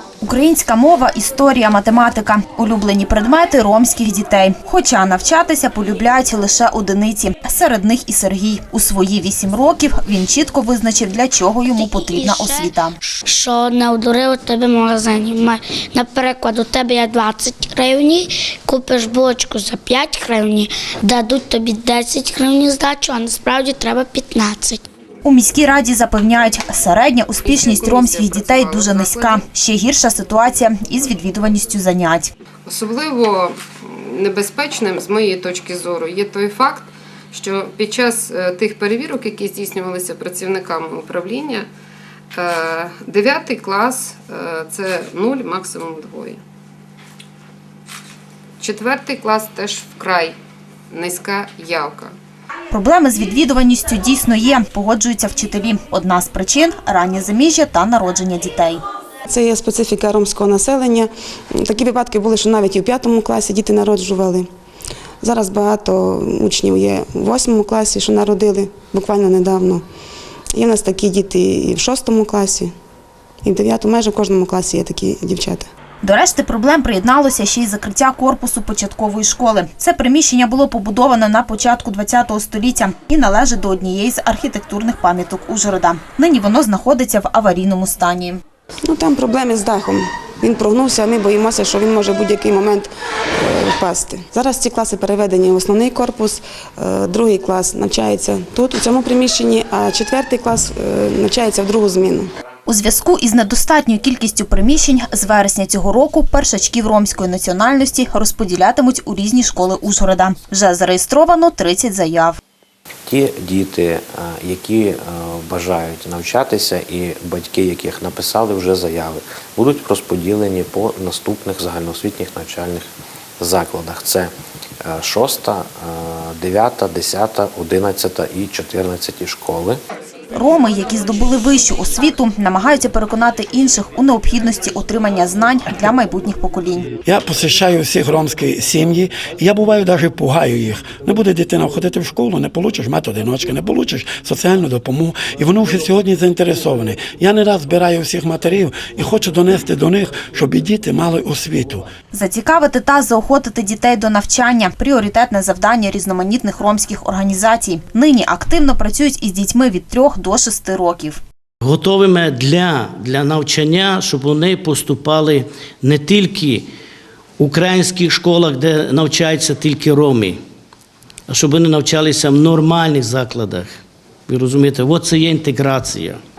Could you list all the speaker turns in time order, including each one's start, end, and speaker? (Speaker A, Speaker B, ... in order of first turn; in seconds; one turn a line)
Speaker A: 0.2-12.9
Speaker B: 11.8-12.7
Speaker B: 13.2-24.8
Speaker A: 25.2-32.3
Speaker C: 27.5-29.4
Speaker C: 32.6-41.7
Speaker C: 42.3-46.4
Speaker C: 48.6-50.4
Speaker C: 50.9-52.1
Speaker A: 52.7-58.8
Speaker D: 59.3-64.5
Speaker D: 65.2-69.8
Speaker D: 70.5-72.7
Speaker D: 73.4-75.7
Speaker A: 76.0-88.4
Speaker D: 88.8-102.3
Speaker A: 102.7-112.4
Speaker E: 113.1-122.8
Speaker E: 123.4-124.3
Speaker E: 124.8-129.8
Speaker A: 130.3-136.9
Speaker F: 137.1-151.9
Speaker A: 152.1-161.2
Speaker G: 161.6-166.7
Speaker G: 167.4-170.4
Speaker G: 171.3-173.7
Speaker G: 174.3-176.2